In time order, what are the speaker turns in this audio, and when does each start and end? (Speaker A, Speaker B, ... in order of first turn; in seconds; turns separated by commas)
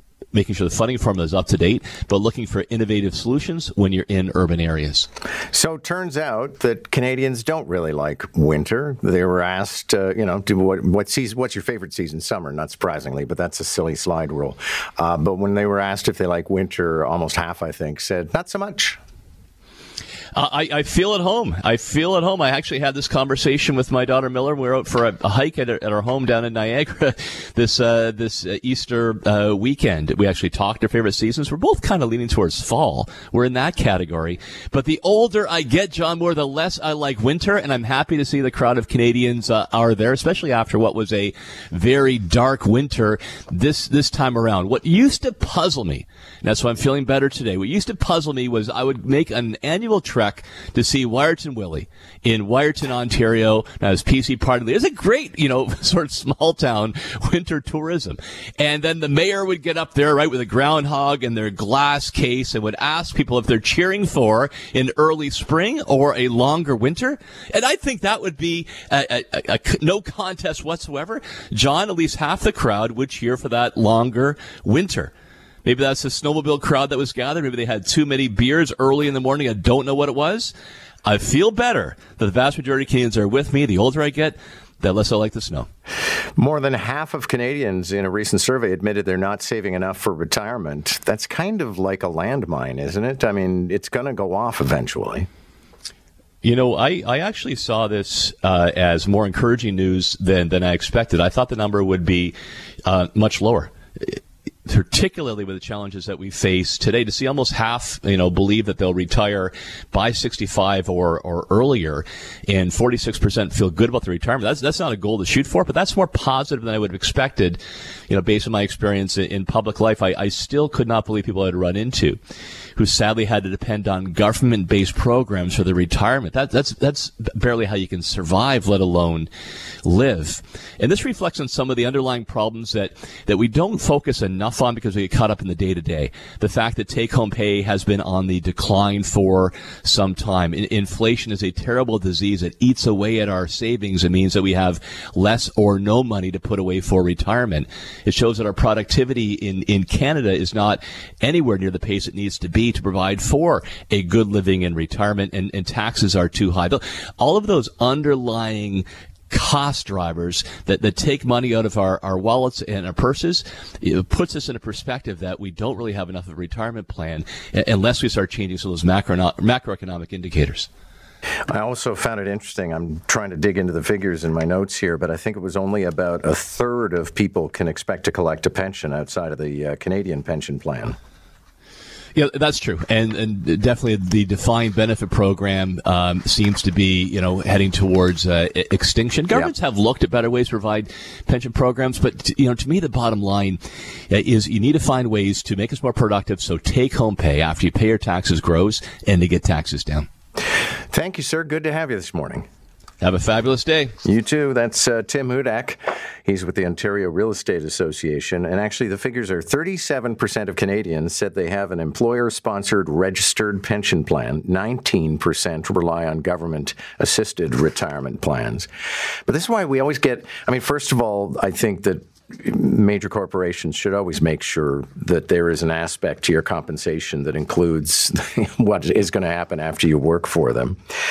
Speaker A: 0.3-5.1, Speaker B: 5.5-19.0, Speaker A: 20.3-75.1, Speaker A: 75.6-80.5, Speaker A: 81.0-85.7, Speaker B: 86.4-95.3, Speaker A: 96.4-102.3, Speaker A: 102.8-122.2, Speaker A: 122.8-129.3, Speaker A: 129.8-170.7, Speaker B: 171.5-180.9, Speaker A: 182.1-200.1, Speaker B: 200.9-202.4, Speaker A: 203.0-203.9, Speaker B: 204.0-218.7, Speaker B: 219.2-230.8